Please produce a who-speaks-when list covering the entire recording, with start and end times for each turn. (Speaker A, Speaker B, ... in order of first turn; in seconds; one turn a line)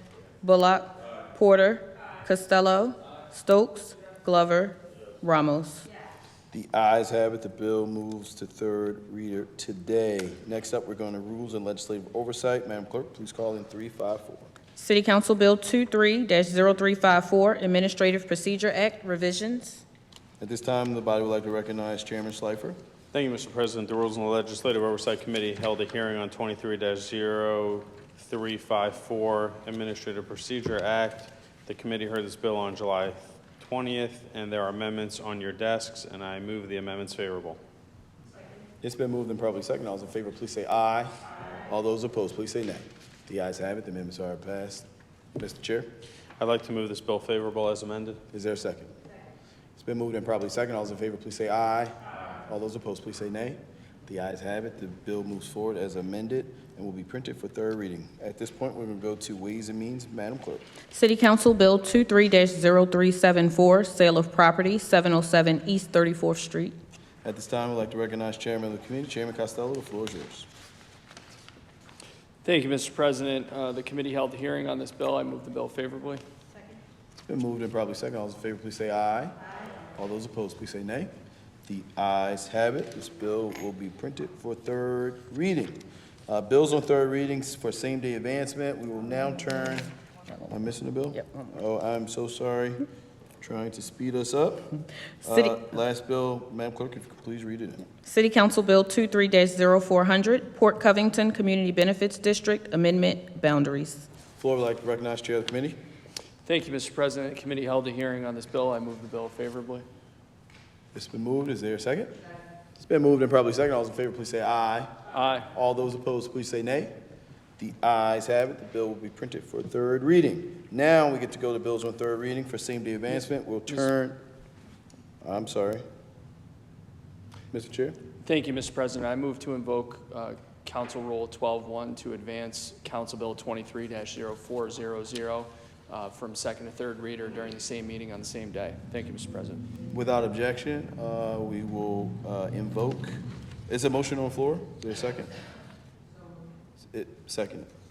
Speaker A: 0.4-5.8
Speaker B: 6.5-14.5
Speaker A: 14.8-19.8
Speaker B: 20.4-22.8
Speaker C: 23.1-37.6
Speaker B: 38.8-41.1
Speaker B: 41.6-45.9
Speaker C: 46.4-48.2
Speaker B: 48.3-48.9
Speaker B: 49.8-51.9
Speaker B: 52.5-60.6
Speaker A: 60.9-66.7
Speaker B: 67.2-70.5
Speaker D: 72.4-76.2
Speaker B: 77.3-79.3
Speaker B: 79.9-81.1
Speaker B: 81.7-89.9
Speaker B: 90.5-92.8
Speaker B: 93.4-94.7
Speaker B: 95.2-97.8
Speaker A: 98.0-104.1
Speaker B: 104.3-105.8
Speaker D: 106.4-109.8
Speaker B: 110.9-112.2
Speaker B: 112.8-114.9
Speaker D: 115.1-115.5
Speaker B: 115.5-116.9
Speaker B: 117.6-124.2
Speaker B: 125.2-125.8
Speaker B: 127.5-128.0
Speaker D: 128.2-139.6
Speaker B: 139.9-143.2
Speaker B: 143.7-145.3
Speaker B: 146.8-147.7